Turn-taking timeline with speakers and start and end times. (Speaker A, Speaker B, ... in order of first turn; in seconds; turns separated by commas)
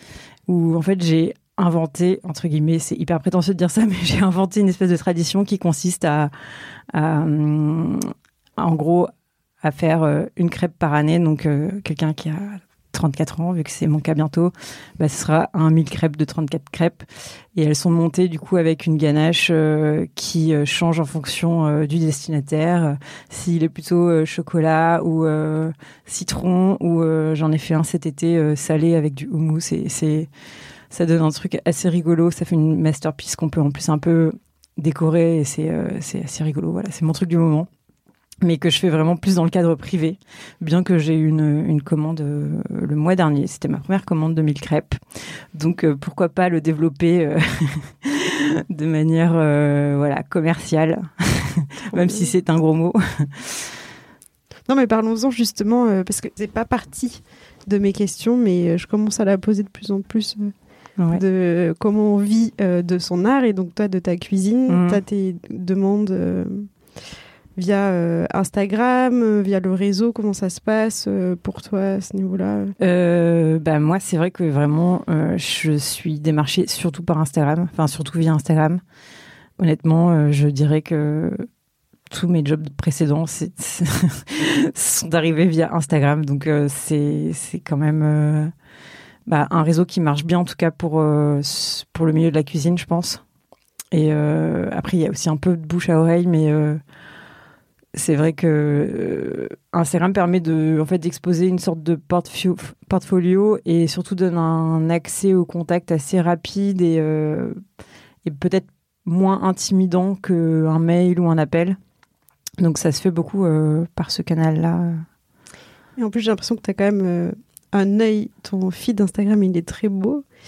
Speaker A: 0.5-6.3, Speaker A: 6.9-9.1, Speaker A: 9.6-17.1, Speaker A: 17.6-30.3, Speaker A: 30.9-37.7, Speaker A: 38.4-45.0, Speaker A: 45.5-53.8, Speaker B: 51.9-52.3, Speaker B: 54.7-60.5, Speaker B: 61.1-66.7, Speaker A: 64.7-65.0, Speaker B: 67.6-72.8, Speaker A: 72.8-78.8, Speaker A: 79.6-81.5, Speaker A: 82.1-88.5, Speaker A: 89.2-93.2, Speaker A: 93.9-96.8, Speaker A: 98.0-107.6, Speaker A: 108.2-111.8, Speaker A: 112.6-115.0, Speaker B: 116.0-120.2